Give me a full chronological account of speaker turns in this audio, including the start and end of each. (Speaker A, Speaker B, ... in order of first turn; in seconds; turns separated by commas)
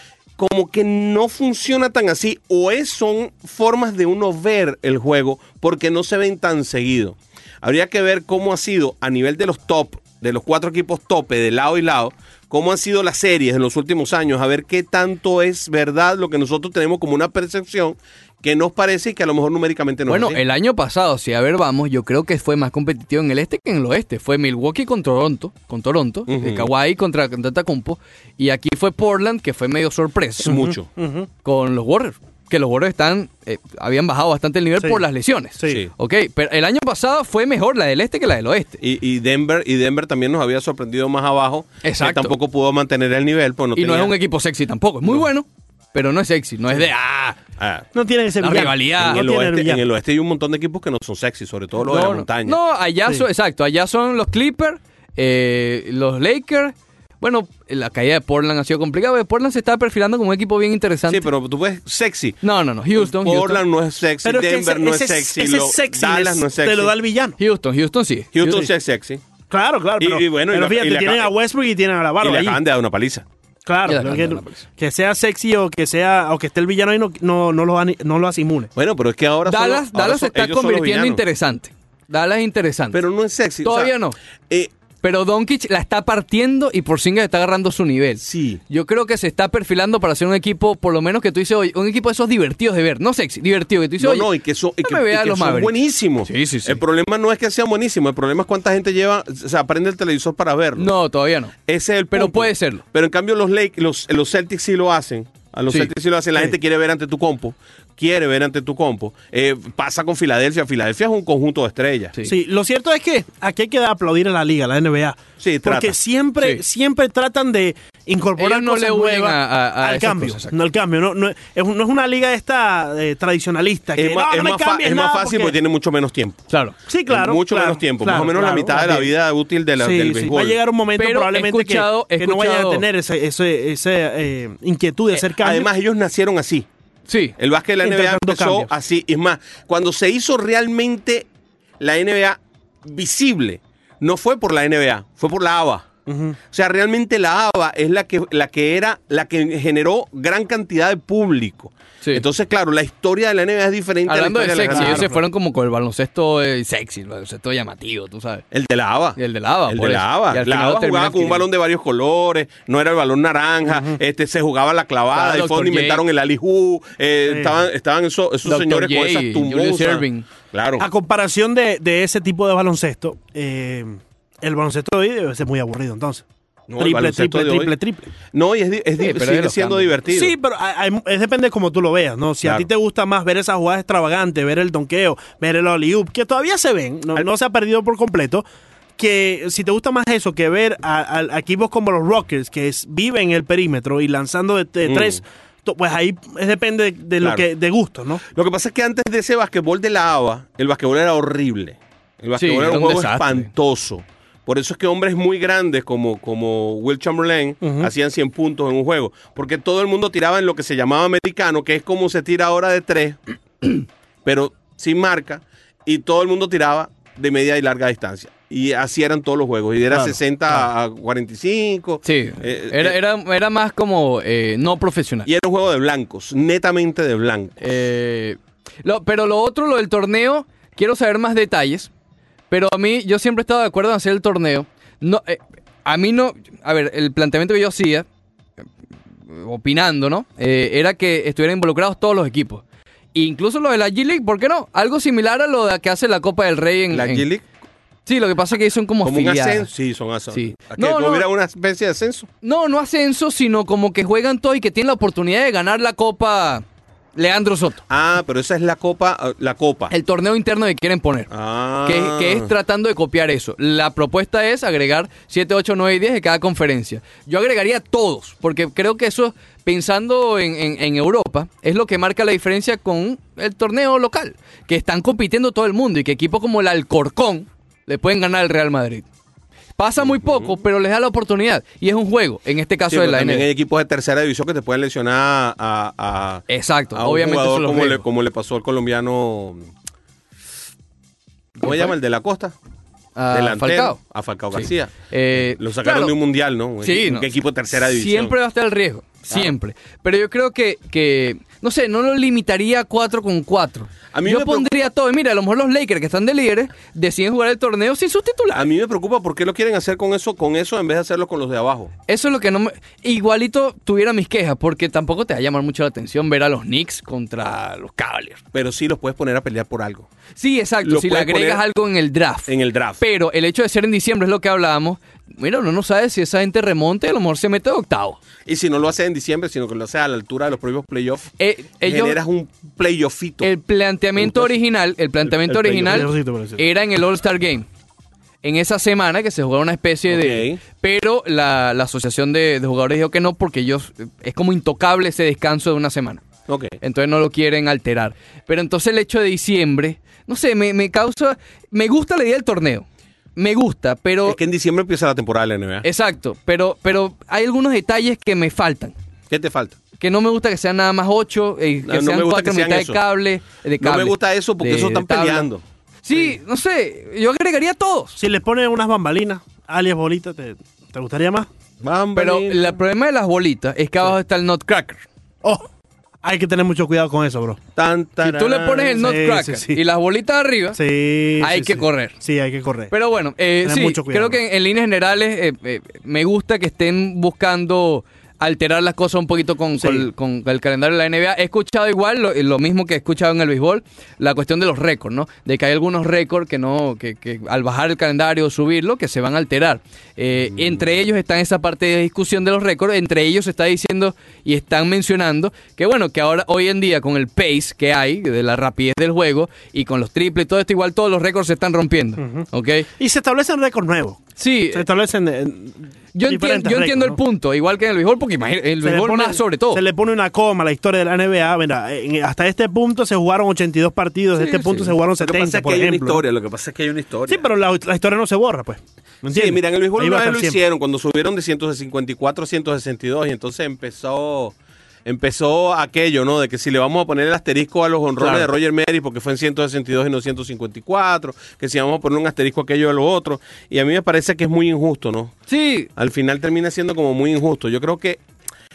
Speaker A: 0.4-20.4, Speaker B: 20.1-30.7, Speaker A: 26.3-26.7, Speaker A: 30.4-30.9, Speaker C: 30.6-31.3, Speaker B: 31.4-38.8, Speaker C: 35.6-35.8, Speaker A: 38.8-44.2, Speaker B: 41.8-42.4, Speaker B: 43.8-47.4, Speaker A: 47.6-47.9, Speaker C: 47.9-49.8, Speaker B: 48.4-49.2, Speaker A: 48.5-52.6, Speaker B: 51.8-61.3, Speaker A: 61.1-62.4, Speaker B: 62.4-63.6, Speaker A: 63.0-66.9, Speaker C: 64.2-67.4, Speaker B: 67.4-68.7, Speaker A: 68.3-69.2, Speaker C: 68.4-68.7, Speaker C: 69.5-72.6, Speaker A: 70.0-71.3, Speaker A: 72.2-73.2, Speaker C: 73.7-78.7, Speaker B: 73.9-74.6, Speaker A: 78.8-81.2, Speaker B: 79.5-83.0, Speaker A: 82.9-83.9, Speaker B: 83.6-84.2, Speaker B: 85.0-94.3, Speaker A: 88.2-88.6, Speaker A: 94.0-100.9, Speaker B: 94.8-96.8, Speaker B: 100.8-101.6, Speaker A: 101.7-112.1, Speaker B: 102.1-102.8, Speaker C: 112.2-125.6, Speaker A: 115.4-115.9, Speaker B: 118.4-120.5, Speaker A: 124.0-126.4, Speaker B: 126.5-126.8, Speaker C: 126.9-129.1, Speaker A: 127.1-130.6, Speaker C: 129.8-135.7, Speaker B: 131.0-132.8, Speaker A: 135.3-136.7, Speaker B: 137.1-137.4, Speaker A: 137.4-141.3, Speaker C: 137.8-138.7, Speaker A: 141.8-145.9, Speaker C: 146.1-146.4, Speaker A: 146.5-155.1, Speaker B: 154.1-158.5, Speaker C: 154.7-155.2, Speaker A: 158.5-170.9, Speaker B: 159.2-161.5, Speaker C: 163.7-164.0, Speaker B: 165.1-166.0, Speaker C: 167.3-167.6, Speaker B: 168.4-170.3, Speaker C: 170.8-176.2, Speaker A: 176.7-177.7, Speaker C: 176.8-178.1, Speaker A: 178.3-180.3, Speaker B: 179.0-180.0, Speaker C: 180.1-188.4, Speaker C: 189.0-198.2, Speaker A: 194.9-195.2, Speaker A: 198.3-223.0, Speaker B: 202.4-203.5, Speaker C: 207.6-207.9, Speaker C: 219.9-220.2, Speaker B: 222.0-225.3, Speaker A: 225.3-227.6, Speaker B: 227.6-231.9, Speaker B: 232.5-238.1, Speaker B: 239.3-247.3, Speaker A: 246.9-247.4, Speaker B: 248.1-249.7, Speaker A: 249.0-252.3, Speaker B: 250.3-251.3, Speaker B: 252.4-256.6, Speaker B: 257.2-257.9, Speaker A: 257.9-259.9, Speaker B: 259.9-261.3, Speaker A: 261.3-262.5, Speaker B: 261.8-279.1, Speaker B: 279.8-283.5, Speaker A: 280.0-280.6, Speaker A: 282.9-289.7, Speaker B: 286.5-288.1, Speaker B: 291.6-292.0, Speaker A: 291.6-292.6, Speaker B: 293.2-294.0, Speaker A: 293.3-294.9, Speaker B: 294.5-296.2, Speaker A: 295.5-298.4, Speaker B: 296.8-297.3, Speaker B: 297.8-308.7, Speaker A: 304.1-304.7, Speaker A: 308.5-311.9, Speaker B: 312.1-318.4, Speaker A: 318.5-320.1, Speaker B: 320.4-328.2, Speaker A: 320.8-321.6, Speaker A: 322.5-323.0, Speaker A: 328.5-331.3, Speaker B: 331.4-332.2, Speaker A: 331.8-333.5, Speaker B: 333.4-337.7, Speaker A: 334.2-334.5, Speaker A: 335.3-336.1, Speaker C: 335.8-336.6, Speaker B: 338.4-346.2, Speaker A: 340.1-340.6, Speaker A: 346.5-346.8, Speaker B: 346.8-354.4, Speaker A: 354.2-355.9, Speaker B: 355.8-358.9, Speaker A: 359.3-359.8, Speaker B: 360.0-365.5, Speaker A: 361.9-363.0, Speaker A: 363.8-365.6, Speaker B: 366.0-368.2, Speaker C: 368.2-371.5, Speaker A: 371.8-372.6, Speaker B: 372.2-375.1, Speaker C: 376.2-377.6, Speaker A: 377.8-379.0, Speaker B: 378.2-380.8, Speaker C: 378.9-379.8, Speaker C: 380.8-382.9, Speaker B: 381.4-382.1, Speaker B: 382.9-412.9, Speaker C: 383.6-384.4, Speaker C: 389.8-390.1, Speaker C: 412.2-412.5, Speaker C: 413.0-417.2, Speaker B: 414.4-414.9, Speaker B: 416.1-419.8, Speaker C: 418.8-426.2, Speaker B: 424.4-424.9, Speaker A: 425.2-427.4, Speaker C: 427.3-430.6, Speaker A: 429.3-445.4, Speaker B: 438.2-438.5, Speaker B: 445.5-445.9, Speaker A: 446.0-448.2